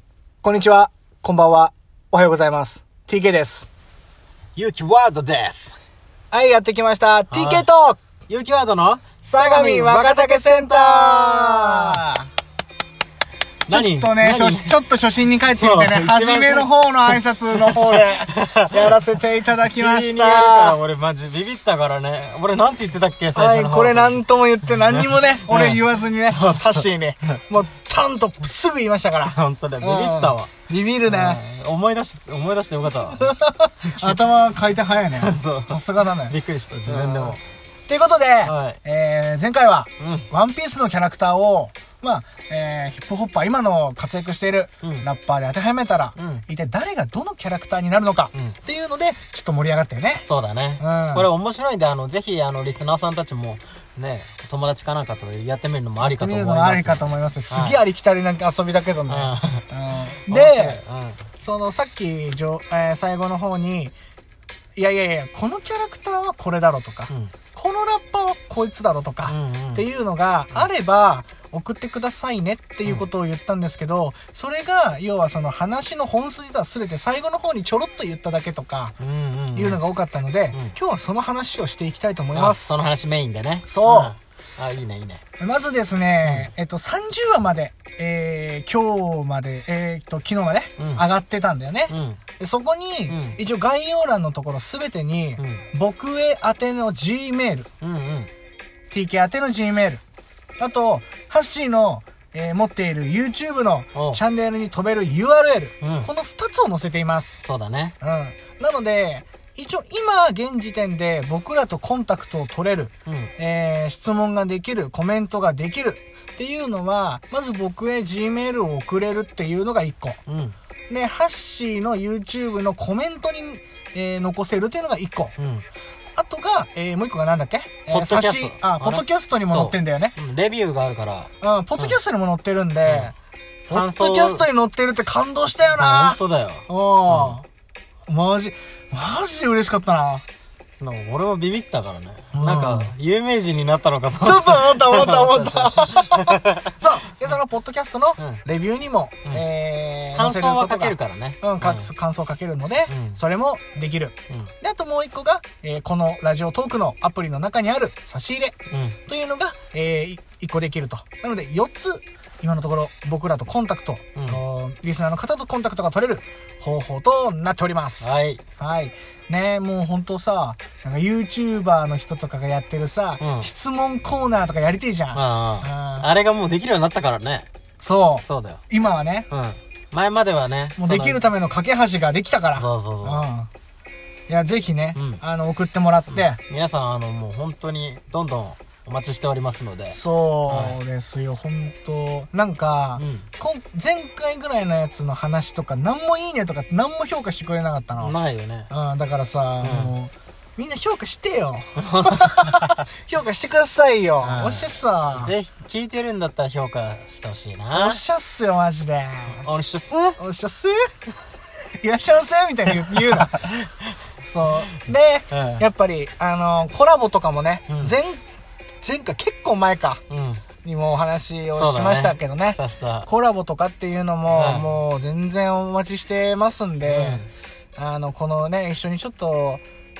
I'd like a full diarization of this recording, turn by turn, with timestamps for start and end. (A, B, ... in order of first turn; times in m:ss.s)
0:00.4-0:03.7 A
0:04.5-0:05.7 B
0:06.3-0:08.0 A
0:07.3-0:07.7 B
0:08.3-0:12.3 B
0:09.2-0:12.0 A
0:13.7-0:14.9 B
0:13.7-0:20.8 A
0:15.5-0:24.2 B
0:23.3-0:31.4 A
0:24.8-0:26.8 B
0:29.2-0:30.5 B
0:31.0-0:34.2 B
0:33.2-0:36.3 A
0:35.1-0:37.4 B
0:36.9-0:50.3 A
0:38.4-0:38.8 B
0:40.0-0:40.3 B
0:44.8-0:45.1 B
0:46.2-0:46.4 B
0:50.3-0:57.8 B
0:50.8-0:51.3 A
0:56.0-1:00.8 A
0:59.1-0:59.6 B
1:00.3-1:01.2 B
1:01.4-1:03.9 A
1:04.8-1:18.9 A
1:09.2-1:09.9 B
1:19.0-1:19.8 B
1:19.5-1:22.8 A
1:22.3-1:25.2 B
1:23.7-1:24.1 A
1:25.4-1:37.7 A
1:26.2-1:26.5 B
1:30.8-1:31.0 B
1:31.9-1:32.2 B
1:33.1-1:33.4 B
1:35.4-1:35.6 B
1:37.8-1:38.3 B
1:38.9-1:40.0 A
1:40.6-1:47.4 A
1:43.9-1:44.2 B
1:45.8-1:46.1 B
1:47.4-1:48.0 B
1:48.0-2:00.2 A
1:53.1-1:53.3 B
2:00.3-2:00.5 B
2:00.9-2:05.3 A
2:05.4-2:05.6 B
2:06.2-2:10.2 A
2:07.9-2:12.0 B
2:11.4-2:13.1 A
2:12.8-2:13.1 B
2:13.7-2:14.4 B
2:13.7-2:17.4 A
2:15.8-2:17.4 B
2:18.1-2:20.2 A
2:20.8-2:26.7 B
2:22.3-2:22.9 A
2:24.2-2:38.5 A
2:30.1-2:31.9 B
2:32.9-2:33.2 B
2:38.7-2:39.0 B
2:39.1-2:56.0 A
2:44.1-2:44.4 B
2:48.0-2:48.4 B
2:53.2-2:53.5 B
2:55.1-2:57.5 B
2:57.8-2:59.3 A
2:58.2-2:58.6 B
2:59.3-3:01.3 B
3:00.8-3:03.5 A
3:02.5-3:03.2 B
3:04.3-3:06.4 A
3:04.9-3:05.2 B
3:06.1-3:10.8 B
3:09.9-3:18.1 A
3:13.0-3:13.3 B
3:18.0-3:18.7 B
3:18.7-3:25.3 A
3:19.6-3:19.9 B
3:21.8-3:22.8 B
3:24.2-3:28.0 B
3:27.7-3:29.4 A
3:29.4-3:30.2 B
3:30.2-3:30.9 A
3:31.8-3:33.5 A
3:32.9-3:33.9 B
3:34.2-3:38.2 A
3:35.3-3:35.6 B
3:37.7-3:38.0 B
3:38.8-3:40.0 A
3:40.1-3:40.4 B
3:40.6-3:47.2 A
3:41.5-3:43.1 B
3:44.3-3:44.7 B
3:46.8-3:47.3 B
3:47.8-3:49.6 A